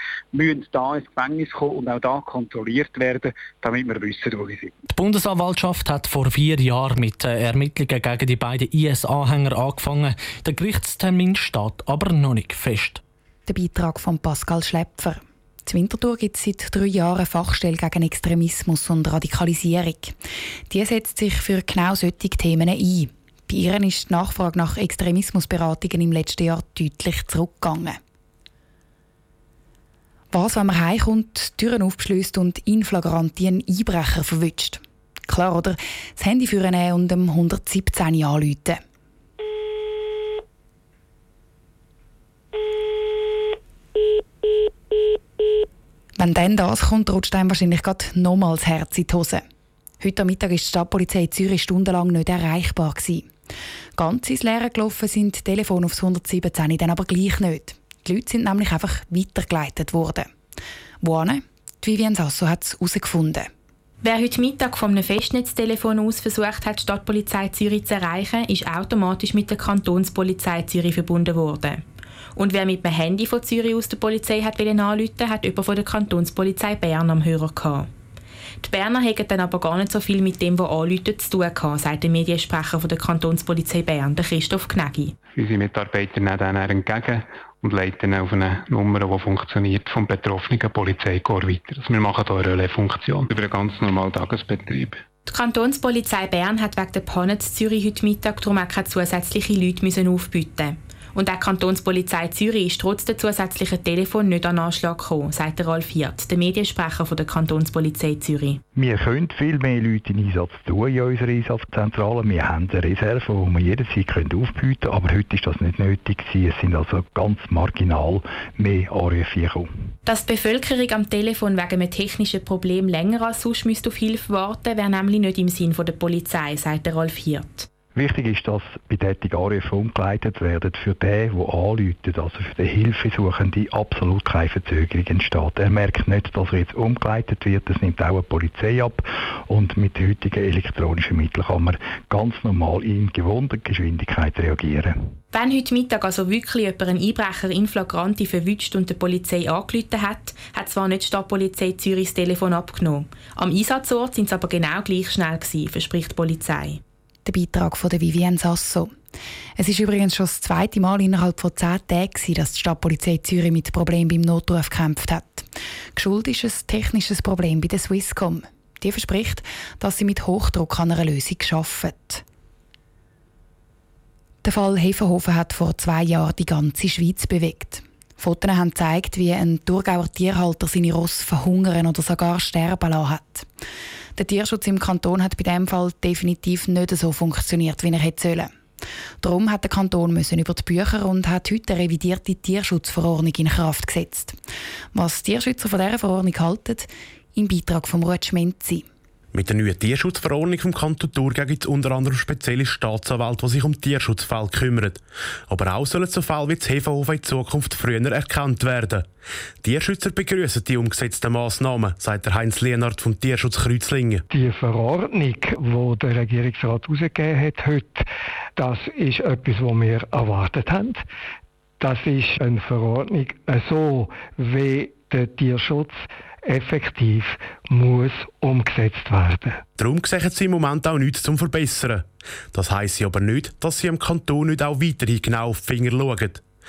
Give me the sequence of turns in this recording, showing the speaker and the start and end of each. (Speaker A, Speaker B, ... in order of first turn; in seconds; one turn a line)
Speaker A: 0.3-4.7
Speaker B: 4.9-13.0
Speaker C: 13.5-20.1
Speaker C: 20.7-28.0
Speaker C: 30.3-38.8
Speaker C: 46.2-49.4
Speaker C: 50.0-53.3
Speaker C: 54.0-60.3
Speaker C: 61.0-63.5
Speaker D: 64.0-71.8
Speaker D: 72.4-77.9
Speaker D: 78.6-85.1
Speaker E: 85.4-95.0
Speaker D: 95.3-108.6
Speaker F: 108.8-119.7
Speaker D: 120.1-127.7
Speaker F: 128.0-145.0
Speaker D: 145.3-156.8
Speaker C: 157.2-158.9
Speaker C: 159.6-172.2
Speaker C: 174.4-183.5
Speaker C: 184.2-188.5
Speaker C: 189.2-194.4
Speaker C: 194.9-198.8
Speaker G: 199.3-209.1
Speaker G: 209.6-214.2
Speaker H: 214.3-218.1
Speaker H: 218.6-221.0
Speaker H: 221.8-229.6
Speaker G: 229.8-236.4